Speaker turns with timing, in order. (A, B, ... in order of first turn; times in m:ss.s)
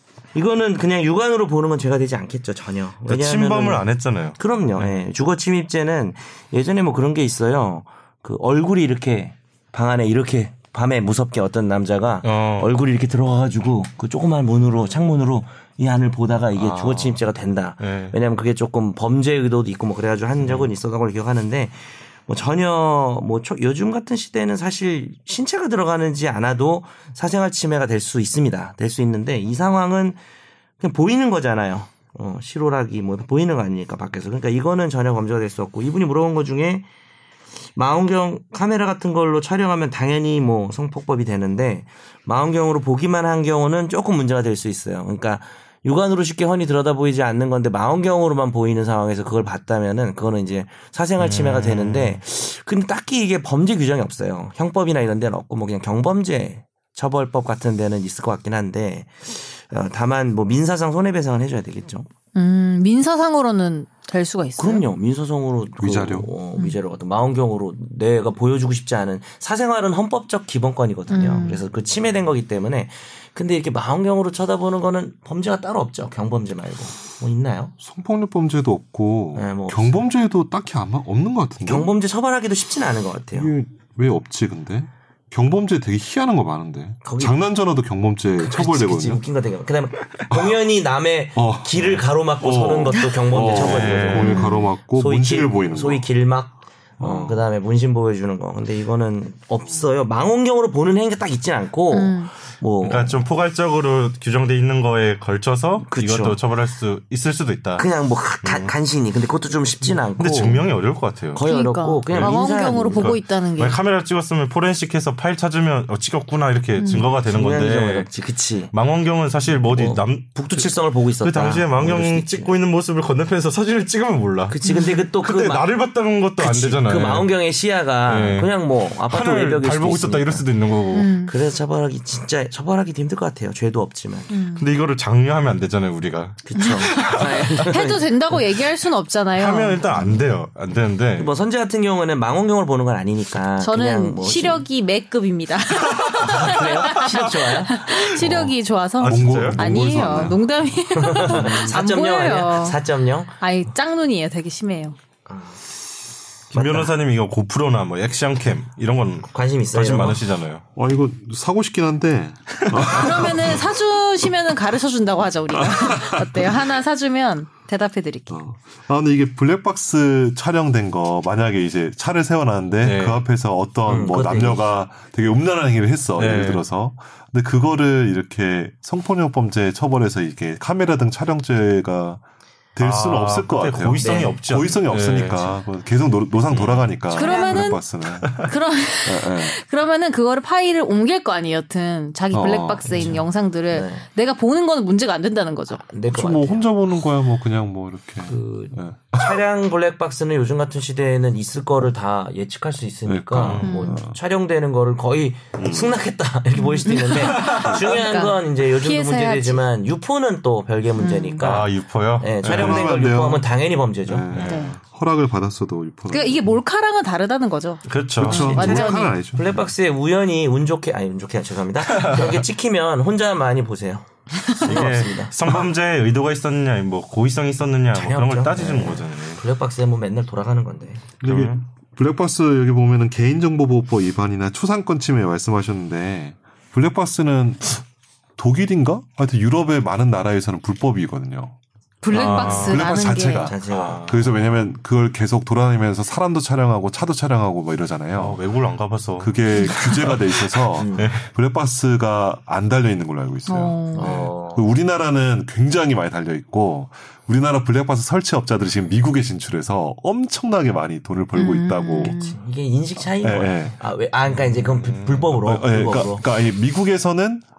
0:00.3-0:30.2 A
0:03.1-0:05.0 B
0:12.2-0:12.7 B
0:16.5-0:17.2 B
0:17.8-0:18.2 B
0:30.8-0:36.9 A
0:37.8-1:02.1 A
0:51.2-0:52.2 B
1:02.3-1:04.8 C
1:04.6-1:17.7 A
1:05.8-1:06.3 D
1:11.1-1:11.6 C
1:17.8-1:21.9 D
1:19.3-1:20.0 A
1:21.6-1:23.5 A
1:23.3-1:29.2 D
1:27.0-1:27.4 A
1:28.4-1:43.2 A
1:30.3-1:30.5 D
1:31.3-1:36.1 D
1:33.5-1:34.4 B
1:34.2-1:34.6 C
1:37.0-1:37.5 D
1:41.9-1:42.3 C
1:42.8-1:47.9 B
1:45.8-1:46.4 A
1:47.8-1:50.7 A
1:48.4-1:48.8 B
1:49.8-1:51.4 B
1:51.3-1:53.2 A
1:51.4-1:53.8 C
1:52.1-1:58.1 B
1:56.8-1:57.1 C
1:57.2-1:58.7 A
1:58.7-2:04.6 B
1:59.5-2:02.6 A
2:04.5-2:10.5 A
2:04.6-2:05.1 C
2:05.2-2:07.3 B
2:08.0-2:11.1 B
2:10.9-2:11.3 C
2:11.2-2:14.4 A
2:14.3-2:14.7 C
2:14.5-2:17.5 B
2:16.4-2:18.1 A
2:16.6-2:19.9 C
2:19.3-2:21.3 B
2:21.2-2:24.6 A
2:23.6-2:32.8 C
2:26.2-2:27.8 A
2:26.8-2:27.2 B
2:28.2-2:28.5 B
2:29.0-2:30.3 B
2:29.0-2:30.5 D
2:31.0-2:33.4 A
2:33.4-2:35.0 C
2:35.2-2:35.6 A
2:36.5-2:40.6 B
2:36.5-2:37.0 A
2:39.3-2:40.3 A
2:40.8-2:43.7 D
2:42.9-2:48.4 C
2:45.5-2:46.6 D
2:48.3-3:02.2 D
2:52.8-2:53.2 B
2:53.9-2:54.8 A
2:56.2-2:56.6 B
3:02.8-3:08.4 D
3:02.8-3:05.6 B
3:04.0-3:04.4 A
3:06.5-3:07.0 B
3:07.1-3:07.8 C
3:07.2-3:07.6 A
3:08.2-3:08.5 B
3:08.4-3:15.8 C
3:09.1-3:09.4 D
3:09.1-3:09.5 A
3:12.3-3:13.0 D
3:12.8-3:14.1 A
3:15.9-3:16.7 A
3:16.1-3:19.4 D
3:18.3-3:34.3 A
3:23.1-3:24.2 D
3:23.4-3:23.8 B
3:23.6-3:24.0 C
3:25.6-3:25.9 B
3:26.6-3:29.6 C
3:31.0-3:31.5 C
3:31.4-3:32.9 B
3:32.4-3:36.6 D
3:34.3-3:34.8 B
3:34.3-3:34.8 C
3:36.1-3:39.2 C
3:37.8-3:38.8 B
3:38.2-3:39.7 D
3:38.5-3:45.3 A
3:41.9-3:42.4 B
3:44.6-3:49.4 B
3:47.9-3:51.6 A
3:51.2-3:57.8 D
3:51.2-3:51.6 B
3:58.4-4:01.6 D
4:02.0-4:03.6 C
4:02.1-4:02.9 B
4:02.1-4:08.4 D
4:03.4-4:04.1 A
4:03.7-4:04.5 B
4:08.1-4:10.4 B
4:09.2-4:22.1 D
4:10.8-4:11.1 A
4:10.9-4:11.3 B
4:13.5-4:14.1 C
4:13.9-4:14.7 A
4:21.3-4:22.4 C
4:22.0-4:26.3 A
4:23.2-4:23.8 D
4:25.2-4:27.4 D